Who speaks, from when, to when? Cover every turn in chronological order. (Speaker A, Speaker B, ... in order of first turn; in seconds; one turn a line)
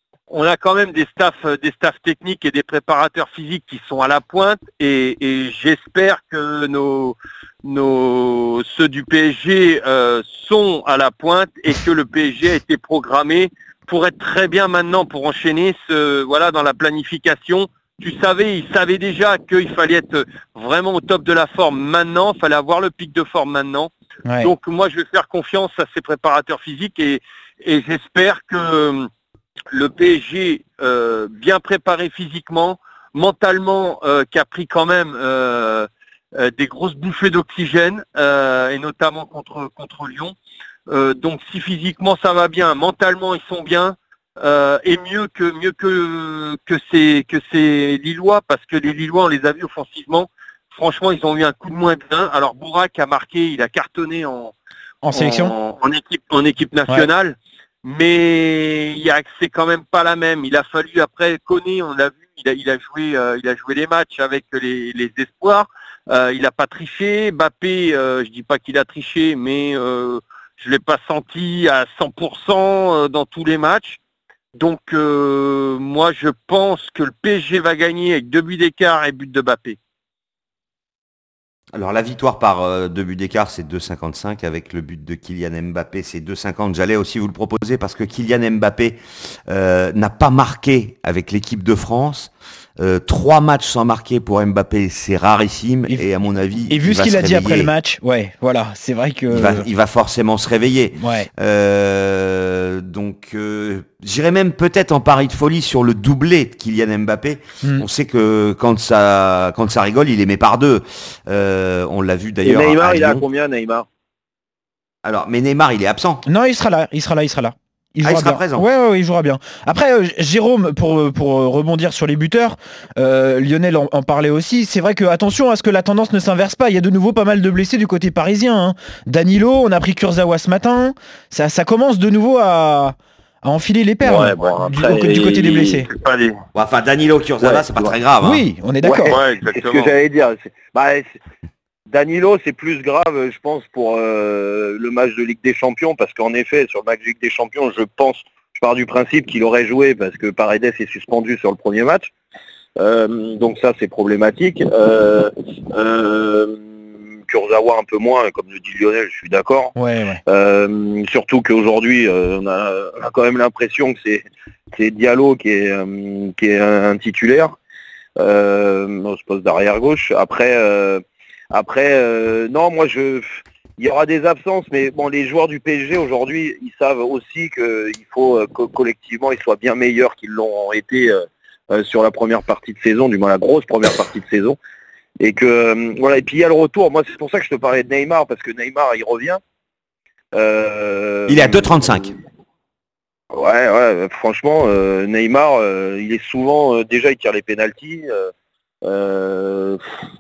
Speaker A: 0.3-29.1
Speaker B: 24.3-24.5
Speaker A: 29.7-40.4
Speaker A: 40.9-54.5
Speaker B: 55.0-55.5
Speaker A: 55.1-74.0
Speaker A: 74.5-79.8
Speaker C: 81.7-97.7
Speaker B: 96.7-99.7
Speaker C: 99.3-113.2
Speaker B: 101.0-101.3
Speaker D: 112.4-113.9
Speaker C: 115.0-116.2
Speaker B: 116.2-135.9
Speaker C: 118.0-118.7
Speaker D: 134.0-135.8
Speaker A: 135.2-136.4
Speaker C: 136.6-138.5
Speaker D: 137.4-137.9
Speaker B: 138.2-139.2
Speaker D: 138.8-141.2
Speaker A: 139.1-139.9
Speaker D: 141.9-152.1
Speaker D: 152.8-156.7
Speaker D: 157.3-159.7
Speaker B: 159.8-160.2
Speaker D: 160.3-167.6
Speaker D: 168.2-184.6
Speaker D: 185.2-189.4
Speaker D: 190.3-191.9
Speaker C: 191.3-192.2
Speaker D: 193.3-198.3
Speaker D: 198.8-199.8